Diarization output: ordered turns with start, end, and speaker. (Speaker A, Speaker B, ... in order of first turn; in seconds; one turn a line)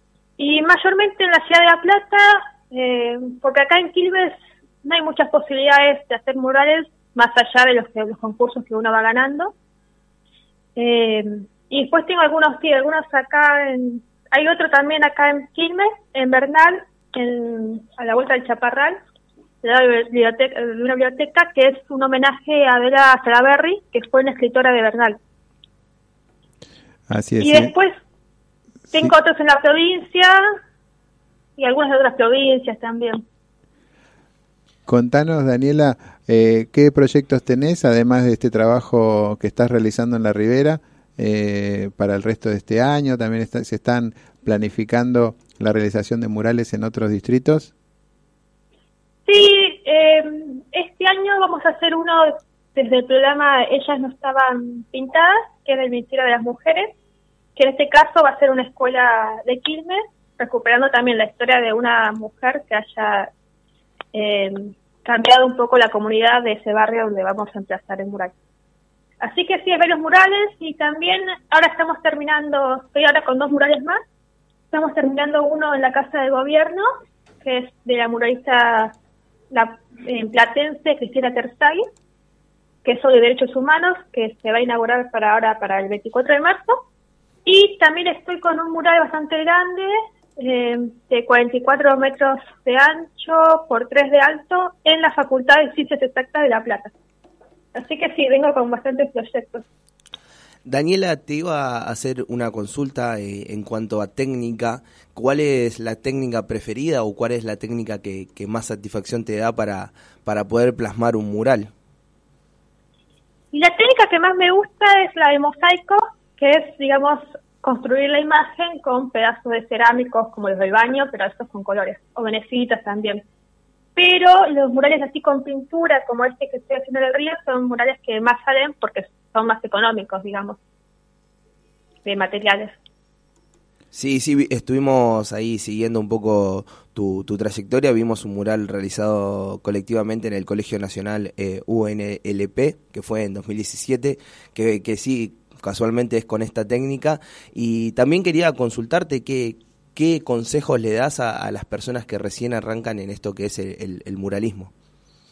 Speaker A: 0.4-9.5
Speaker A: 10.8-19.0
Speaker A: 19.6-25.2
Speaker B: 27.1-27.7
Speaker A: 27.4-27.9
Speaker A: 28.9-30.4
Speaker A: 31.6-33.2
Speaker B: 34.9-47.7
Speaker A: 49.3-56.9
Speaker A: 57.6-63.3
Speaker A: 64.1-68.3
Speaker A: 69.2-74.0
Speaker A: 74.7-76.8
Speaker A: 77.4-79.0
Speaker A: 79.5-81.8
Speaker A: 82.8-86.8
Speaker A: 87.5-96.9
Speaker A: 97.8-99.6
Speaker C: 100.6-111.7
Speaker A: 113.5-123.2
Speaker A: 124.0-130.6
Speaker A: 132.1-132.8
Speaker C: 133.9-154.7